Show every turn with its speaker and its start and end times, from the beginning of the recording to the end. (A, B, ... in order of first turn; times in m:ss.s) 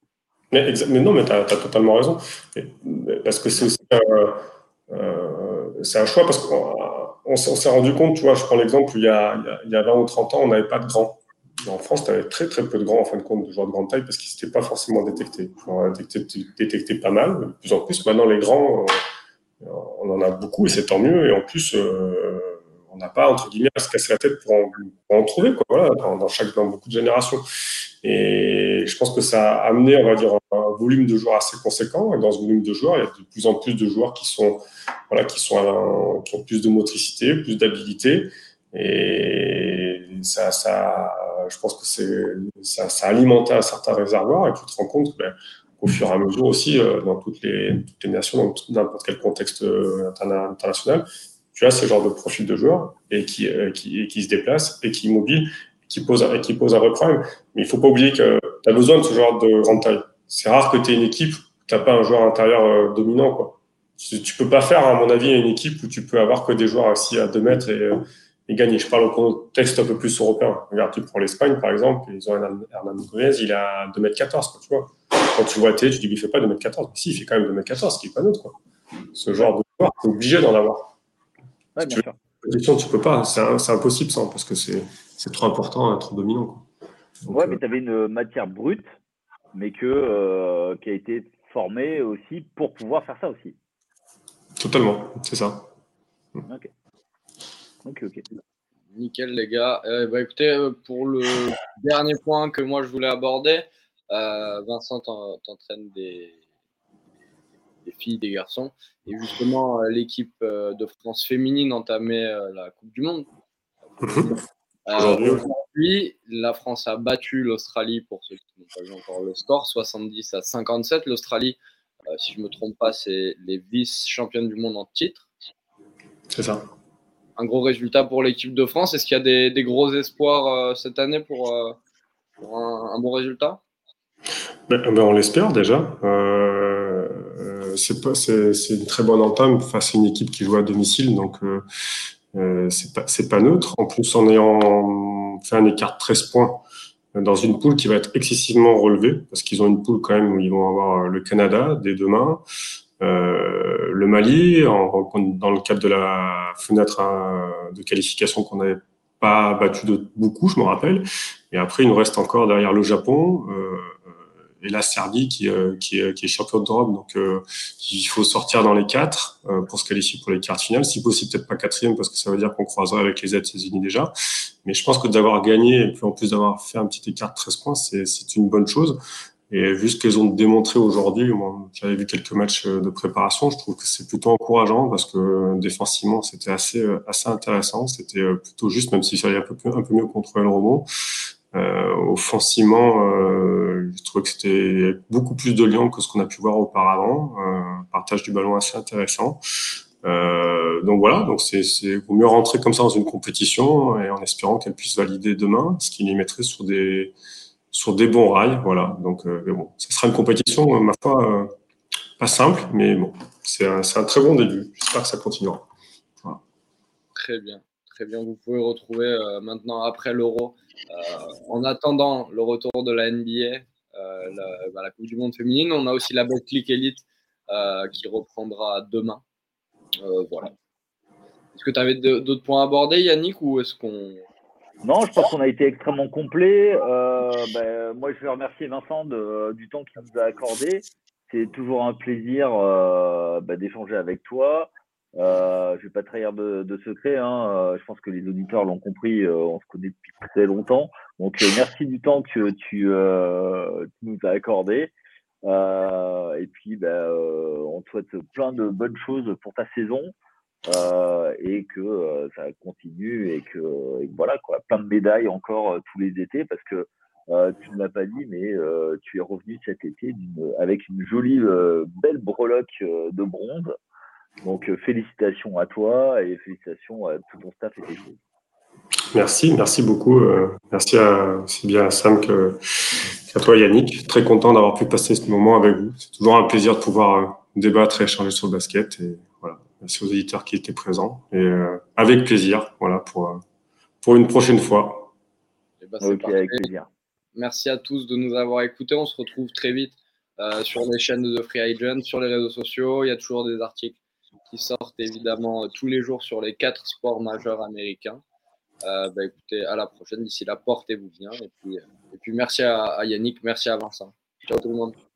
0:00.5-0:18.9 A
0:19.6-0:27.4 A
0:28.0-1:18.6 A
1:19.1-1:21.0 A
1:21.8-1:22.2 B
1:21.8-1:26.6 A
1:27.2-1:27.6 A
1:27.3-1:28.9 B
1:29.5-1:33.6 B
1:34.6-1:35.7 A
1:37.8-1:38.2 B
1:38.9-1:46.4 C
1:47.8-1:53.3 C
1:54.0-2:01.6 C
1:54.0-1:54.3 A
1:54.9-1:55.4 A
2:02.1-2:05.3 C
2:06.3-2:06.7 A
2:07.4-2:11.8 C
2:12.4-2:13.6 C
2:14.7-2:21.6 A
2:22.3-2:32.4 A
2:33.0-2:54.1 A
2:54.6-3:10.9 A
3:11.5-3:19.4 A
3:20.0-3:27.1 A
3:27.7-3:31.5 A
3:32.2-3:35.7 A
3:37.1-3:49.2 C
3:50.0-3:50.5 C
3:51.5-3:54.2 C
3:54.8-4:14.9 B
4:15.4-4:20.1 B
4:20.7-4:33.8 B
4:34.4-4:38.2 B
4:39.1-4:53.4 A
4:54.0-4:55.1 A
4:55.8-4:56.7 C
4:56.0-4:56.9 B
4:57.4-5:04.0 C
5:04.5-5:08.2 C
5:08.8-5:15.0 C